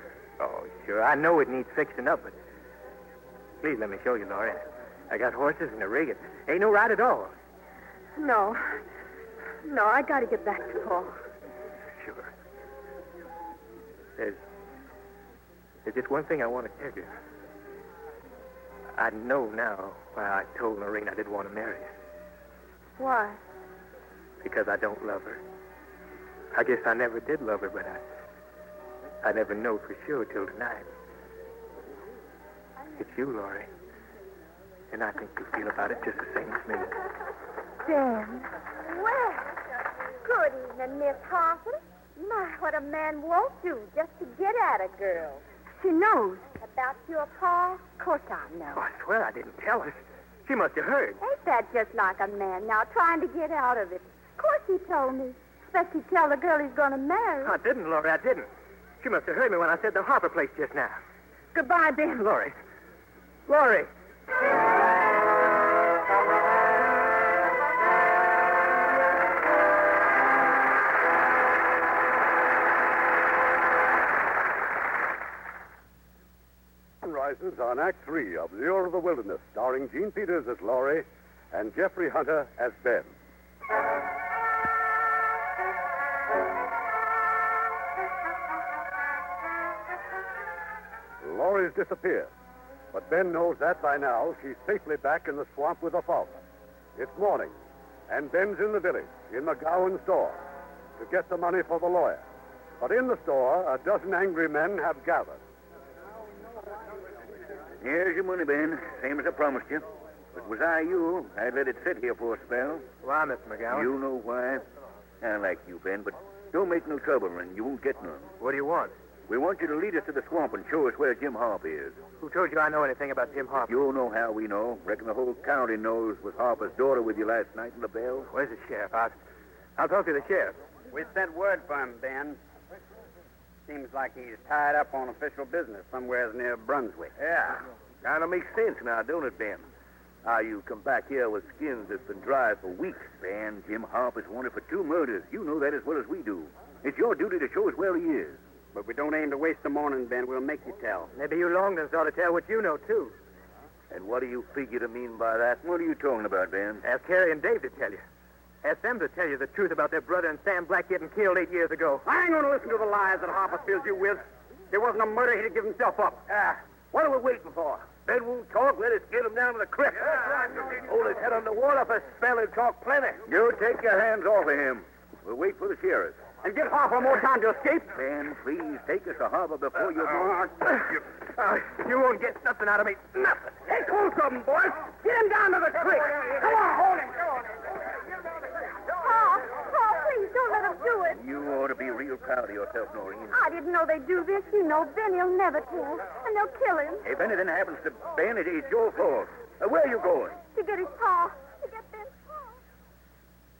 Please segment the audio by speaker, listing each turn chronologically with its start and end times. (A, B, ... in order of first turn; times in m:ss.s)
0:00.4-0:02.4 A
0:03.6-0:07.3 A
0:08.2-0:08.8 B
0:09.6-0:11.2 B
0:12.0-0:12.3 A
0:15.8-0:17.1 A
0:19.0-0:21.9 A
0:23.0-0:23.4 B
0:24.4-0:25.4 A
0:26.5-0:28.0 A
0:29.2-0:30.9 A
0:33.0-0:33.7 A
0:34.9-0:36.9 A
0:37.8-0:38.5 B
0:38.8-0:39.5 C
0:40.2-0:45.4 C
0:45.8-0:46.4 B
0:46.1-0:48.8 C
0:48.8-0:51.2 A
0:51.2-0:57.6 C
0:57.4-0:58.5 A
0:59.0-1:01.0 A
1:01.6-1:02.1 B
1:02.2-1:02.5 A
1:03.5-1:03.9 A
1:17.0-1:23.1 D
1:31.2-1:32.3 D
1:32.9-1:36.4 D
1:37.0-1:37.6 D
1:38.1-1:40.4 D
1:41.0-1:42.2 D
1:42.8-1:45.4 D
1:47.8-1:52.8 E
1:53.0-1:53.9 A
1:53.7-1:54.6 E
1:55.2-1:58.3 E
1:58.4-1:58.9 A
1:59.3-2:02.0 E
2:02.2-2:03.8 A
2:03.7-2:08.3 E
2:08.3-2:09.2 A
2:09.8-2:10.6 A
2:10.9-2:12.4 F
2:13.7-2:17.1 F
2:17.2-2:17.5 E
2:18.0-2:19.6 E
2:20.2-2:28.4 E
2:28.7-2:31.1 F
2:31.2-2:33.1 A
2:33.9-2:36.8 E
2:36.8-2:38.0 A
2:38.6-2:42.0 A
2:42.0-2:46.4 F
2:46.9-2:47.8 F
2:48.2-2:49.9 E
2:50.9-2:51.3 E
2:53.2-2:56.2 E
2:56.4-2:57.9 F
2:57.9-3:00.5 E
3:01.4-3:03.6 A
3:03.8-3:07.0 F
3:08.9-3:11.2 C
3:11.2-3:13.4 E
3:13.3-3:17.0 C
3:17.0-3:20.4 E
3:20.5-3:22.3 C